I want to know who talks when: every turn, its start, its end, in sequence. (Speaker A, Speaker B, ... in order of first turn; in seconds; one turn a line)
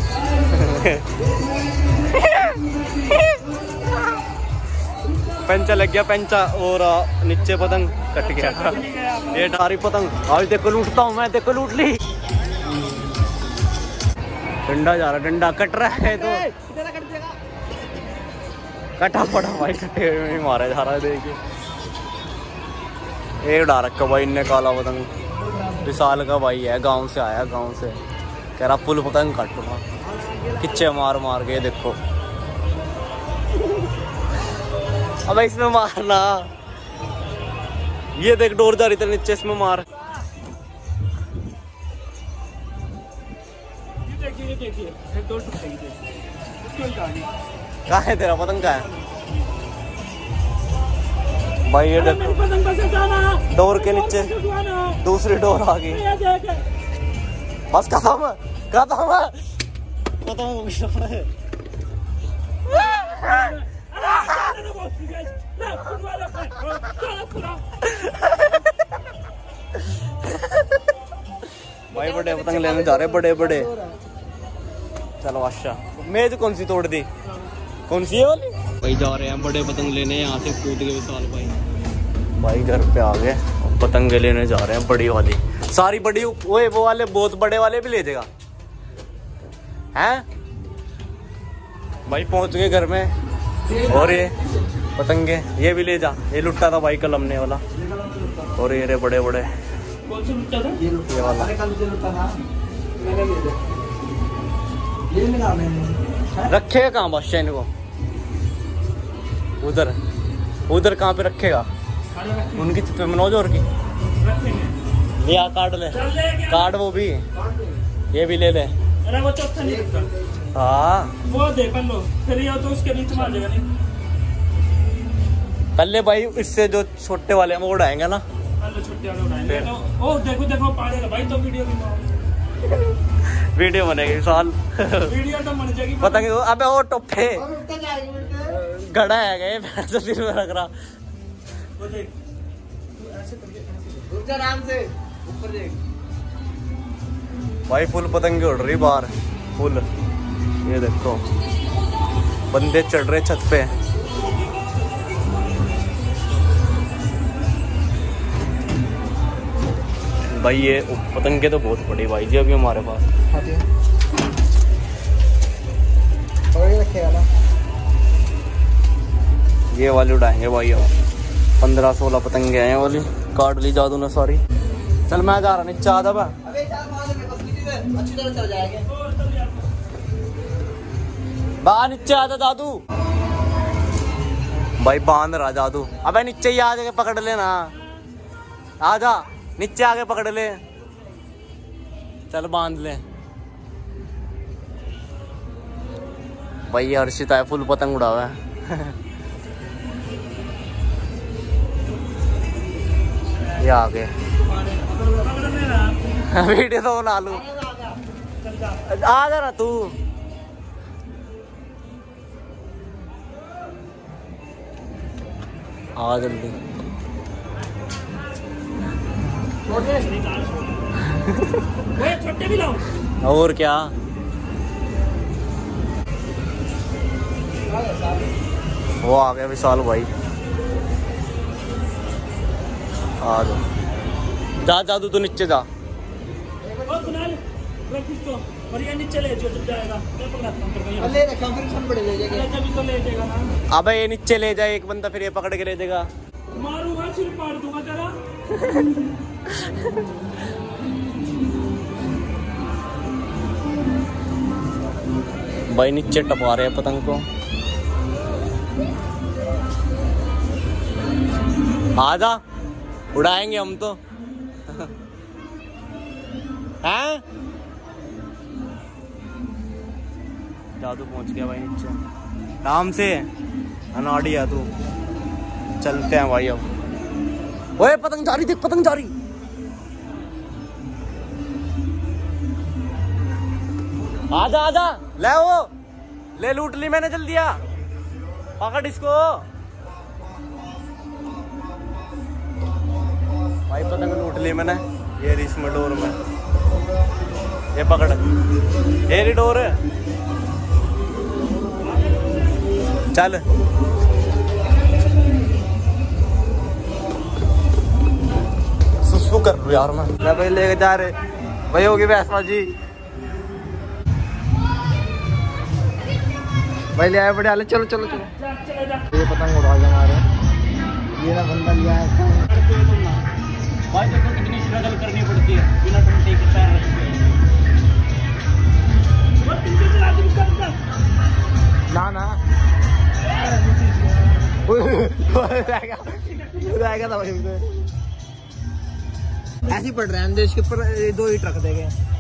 Speaker A: 0.4-1.1
Speaker A: 5.4-12.0
Speaker B: 8.2-9.4
Speaker A: 14.7-16.4
Speaker C: 15.9-17.4
Speaker A: 19.0-21.4
Speaker A: 23.4-25.1
Speaker A: 25.8-28.0
Speaker A: 28.6-29.8
Speaker C: 30.1-30.9
Speaker A: 30.6-32.0
Speaker A: 35.3-36.5
Speaker A: 38.2-39.9
Speaker B: 44.0-46.0
Speaker B: 46.6-47.3
Speaker A: 47.9-48.9
Speaker A: 51.7-52.5
Speaker B: 52.0-55.0
Speaker A: 53.5-54.4
Speaker A: 55.0-56.0
Speaker B: 55.9-56.6
Speaker A: 57.7-59.4
Speaker A: 60.2-61.3
Speaker B: 62.8-67.6
Speaker A: 71.9-73.7
Speaker C: 71.9-74.0
Speaker A: 75.2-77.1
Speaker A: 77.9-81.5
Speaker A: 82.4-88.3
Speaker A: 90.0-90.2
Speaker A: 92.1-93.1
Speaker C: 93.7-94.1
Speaker A: 93.8-94.3
Speaker A: 95.0-97.6
Speaker C: 97.8-98.6
Speaker A: 98.6-99.5
Speaker B: 100.1-100.8
Speaker C: 100.8-102.4
Speaker A: 101.1-101.5
Speaker C: 103.0-103.6
Speaker C: 105.1-106.5
Speaker A: 106.5-107.7
Speaker A: 109.6-110.0
Speaker A: 110.7-111.7
Speaker B: 112.1-112.7
Speaker A: 112.5-113.7
Speaker B: 114.2-114.8
Speaker A: 115.2-117.2
Speaker B: 115.9-116.7
Speaker C: 117.4-117.8
Speaker A: 118.1-118.7
Speaker B: 119.0-120.1
Speaker C: 119.6-120.1
Speaker A: 120.5-121.1
Speaker B: 121.2-123.7
Speaker A: 125.8-128.2
Speaker B: 128.6-132.1
Speaker A: 129.5-129.7
Speaker A: 133.5-135.1
Speaker B: 135.1-136.3
Speaker A: 136.0-137.4
Speaker C: 137.3-138.5
Speaker A: 138.5-140.7
Speaker B: 141.8-142.1
Speaker B: 143.0-144.0
Speaker C: 144.0-145.8
Speaker A: 147.7-149.8
Speaker A: 150.7-151.2
Speaker A: 152.5-153.7
Speaker A: 160.3-163.1
Speaker C: 163.3-163.7
Speaker C: 166.5-167.3
Speaker A: 169.7-170.9
Speaker A: 171.6-174.4
Speaker A: 175.1-176.3
Speaker C: 176.4-178.9
Speaker B: 178.9-179.7
Speaker A: 181.6-182.8
Speaker A: 184.8-187.7
Speaker A: 188.8-190.6
Speaker A: 192.3-193.0
Speaker A: 196.7-199.0
Speaker A: 203.6-204.1
Speaker B: 204.5-206.0
Speaker A: 206.2-207.5
Speaker C: 207.3-208.0
Speaker B: 208.4-208.8
Speaker A: 208.8-209.9
Speaker A: 216.0-216.6
Speaker C: 219.7-220.1
Speaker B: 219.7-220.9
Speaker A: 221.1-221.6
Speaker B: 221.9-222.9
Speaker A: 223.2-223.9
Speaker C: 227.7-228.3
Speaker A: 229.0-230.1
Speaker A: 233.2-233.6
Speaker A: 234.6-235.7
Speaker C: 236.6-237.1
Speaker B: 236.9-241.2
Speaker C: 241.0-242.5
Speaker B: 242.3-243.5
Speaker A: 243.7-246.1
Speaker B: 246.5-248.2
Speaker A: 255.7-257.2
Speaker A: 262.0-262.4
Speaker A: 263.1-264.0
Speaker A: 266.8-267.2
Speaker A: 270.8-272.0
Speaker A: 272.6-273.3
Speaker A: 273.9-274.7
Speaker A: 275.8-276.6
Speaker A: 277.8-279.1
Speaker A: 284.3-285.7
Speaker A: 286.4-287.6
Speaker A: 288.6-289.4
Speaker A: 293.7-296.2
Speaker A: 297.8-298.2
Speaker A: 299.1-299.8
Speaker A: 303.1-303.4
Speaker A: 309.1-310.2
Speaker C: 310.2-311.1
Speaker C: 311.7-312.7
Speaker C: 316.9-318.3
Speaker B: 318.4-319.1
Speaker C: 319.1-320.2
Speaker C: 321.2-322.5
Speaker B: 322.6-323.1
Speaker A: 323.9-327.2
Speaker B: 329.4-330.8
Speaker C: 331.9-332.4
Speaker C: 334.7-337.7
Speaker C: 339.7-341.9